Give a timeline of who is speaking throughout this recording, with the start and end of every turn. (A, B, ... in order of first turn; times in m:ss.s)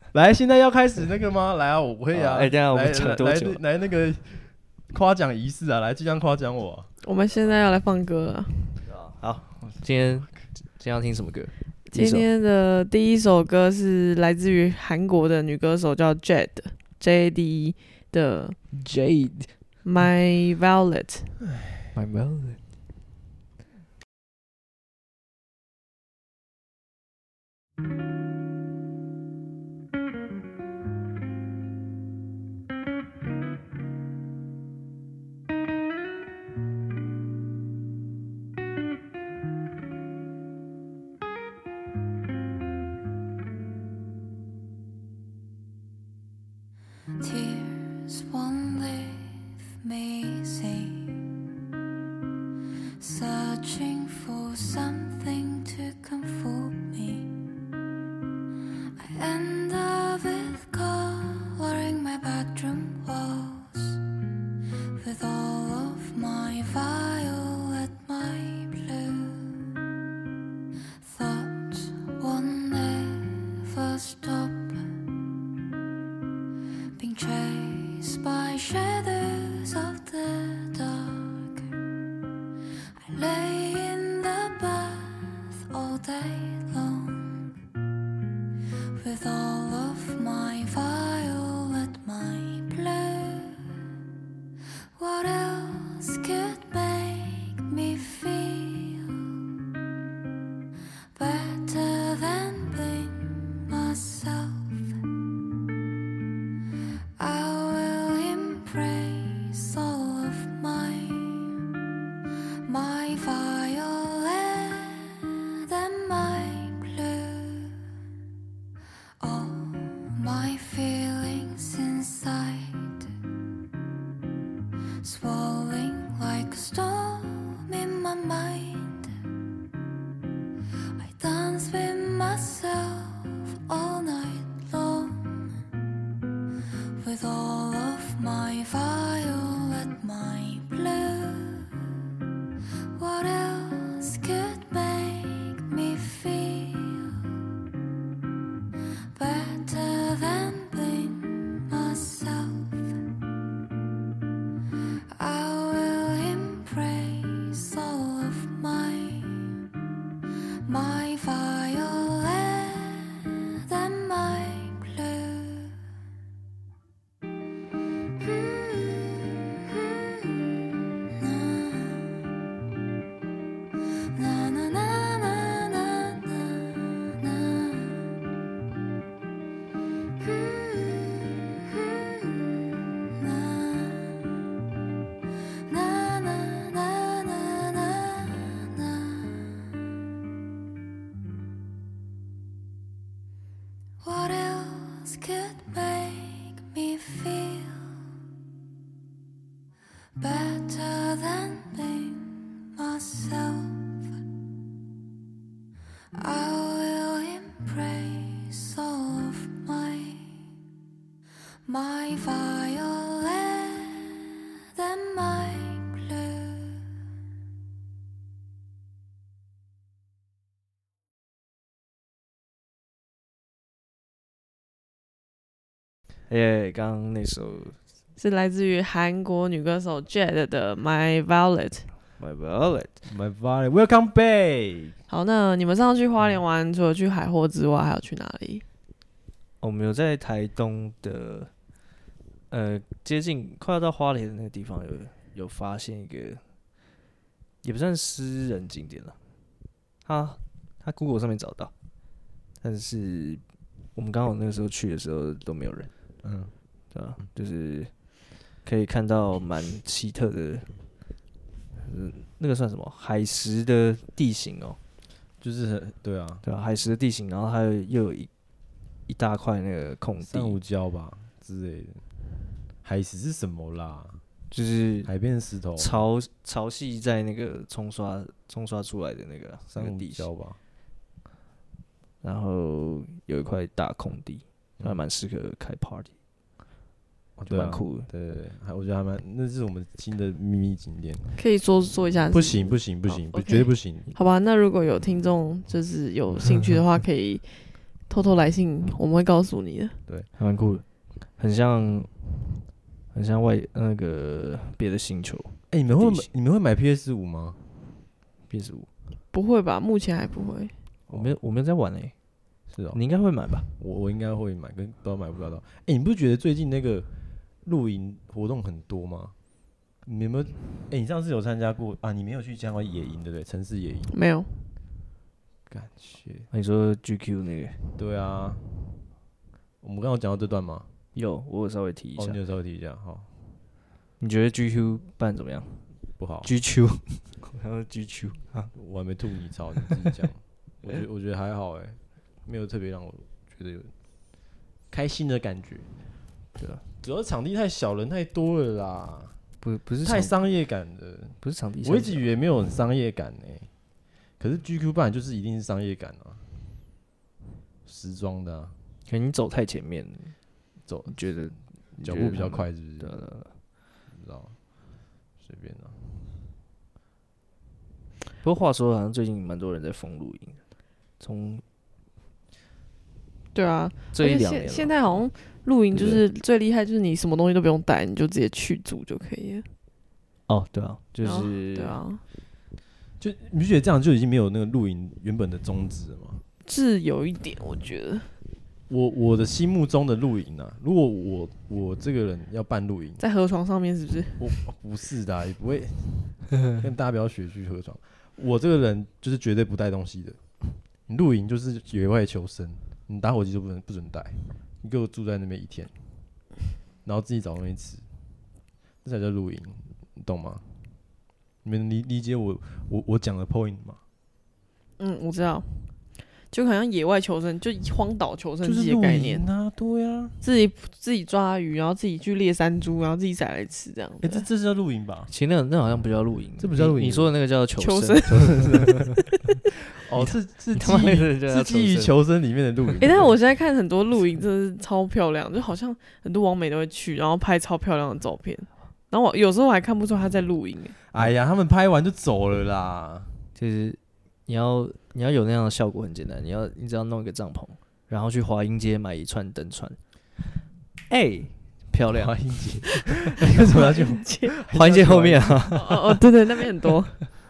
0:00.1-0:06.9 A
0:02.1-0:03.6 B
0:07.0-0:08.8 C
0:08.8-0:12.3 B
0:11.9-0:18.6 C
0:18.7-0:19.6 B
0:19.8-0:21.4 C
0:21.9-0:22.6 B
0:47.2-0:51.3 D
0:53.0-0:57.3 D
0:59.0-1:04.0 D
1:05.0-1:09.6 D
1:11.0-1:14.8 D
1:17.0-1:21.7 D
1:23.0-1:27.5 D
1:28.9-1:33.7 D
1:35.0-1:39.2 D
1:41.1-1:44.9 D
1:47.2-1:51.6 D
1:52.6-1:57.8 D
1:59.2-2:03.1 D
2:05.0-2:09.1 D
2:11.0-2:15.5 D
2:17.0-2:21.8 D
2:22.9-2:27.2 D
2:29.1-2:32.9 D
2:35.1-2:39.6 D
2:40.6-2:45.8 D
2:48.2-2:52.2 D
2:54.1-2:58.1 D
3:00.2-3:04.4 D
3:05.7-3:09.7 D
3:14.0-3:18.0 D
3:20.2-3:24.0 D
3:26.2-3:30.3 D
3:31.6-3:36.9 D
3:46.3-3:47.8 B
3:48.2-3:51.9 C
3:52.2-3:53.0 B
3:53.1-3:55.0 A
3:55.1-3:58.6 C
3:59.6-4:01.5 B
4:02.5-4:06.4 B
4:07.6-4:09.2 B
4:10.0-4:11.7 B
4:12.6-4:13.4 B
4:13.9-4:15.9 B
4:16.2-4:16.5 A
4:16.9-4:17.9 B
4:18.6-4:20.7 B
4:21.8-4:24.8 B
4:25.4-4:26.4 A
4:26.4-4:28.3 B
4:29.1-4:30.6 B
4:30.2-4:32.0 A
4:32.8-4:34.2 A
4:34.5-4:35.1 B
4:35.0-4:36.0 A
4:35.8-4:40.3 B
4:39.7-4:40.6 A
4:42.2-4:46.1 B
4:47.4-4:51.4 A
4:47.5-4:48.1 B
4:51.4-5:00.0 C
4:52.3-4:54.1 A
5:00.4-5:02.2 B
5:03.1-5:06.3 B
5:05.7-5:07.6 A
5:08.5-5:08.9 B
5:09.3-5:10.7 C
5:11.1-5:12.2 B
5:11.1-5:11.3 A
5:12.7-5:13.0 A
5:12.9-5:13.7 B
5:13.6-5:17.1 A
5:17.6-5:19.3 A
5:20.0-5:24.1 A
5:24.1-5:24.5 C
5:25.7-5:26.5 A
5:26.5-5:27.8 B
5:28.0-5:28.6 A
5:29.8-5:30.9 A
5:31.1-5:32.4 B
5:32.2-5:33.3 A
5:34.2-5:35.9 B
5:36.2-5:36.5 A
5:36.4-5:38.7 B
5:38.7-5:45.9 A
5:46.6-5:46.8 B
5:47.0-5:49.4 A
5:49.6-5:50.3 B
5:50.0-5:53.8 A
5:51.4-5:52.3 B
5:54.3-5:56.4 A
5:57.8-5:58.7 A
5:59.1-6:00.4 B
6:00.8-6:01.4 A
6:01.1-6:03.5 B
6:02.0-6:03.2 A
6:04.1-6:04.6 A
6:05.4-6:06.0 A
6:08.4-6:10.6 B
6:11.2-6:11.6 B
6:13.5-6:19.7 C
6:14.1-6:14.9 B
6:15.9-6:16.2 B
6:20.5-6:22.0 B
6:21.2-6:22.2 C
6:23.2-6:26.4 A
6:26.6-6:28.3 C
6:28.9-6:33.2 A
6:33.2-6:34.6 C
6:34.4-6:45.9 A
6:47.0-6:48.0 A
6:49.0-6:50.6 A
6:51.6-6:54.0 A
6:55.0-6:55.9 C
6:56.5-6:59.4 C
6:58.6-7:00.3 A
7:00.4-7:04.4 C
7:04.2-7:05.3 A
7:05.3-7:09.2 B
7:06.6-7:07.3 A
7:07.8-7:09.0 C
7:08.3-7:09.0 A
7:09.9-7:13.3 A
7:10.2-7:12.2 B
7:13.0-7:21.0 C
7:21.1-7:23.3 A
7:23.6-7:30.0 B
7:31.1-7:32.3 B
7:32.1-7:35.8 A
7:33.5-7:34.5 C
7:34.7-7:36.2 B
7:35.7-7:37.2 C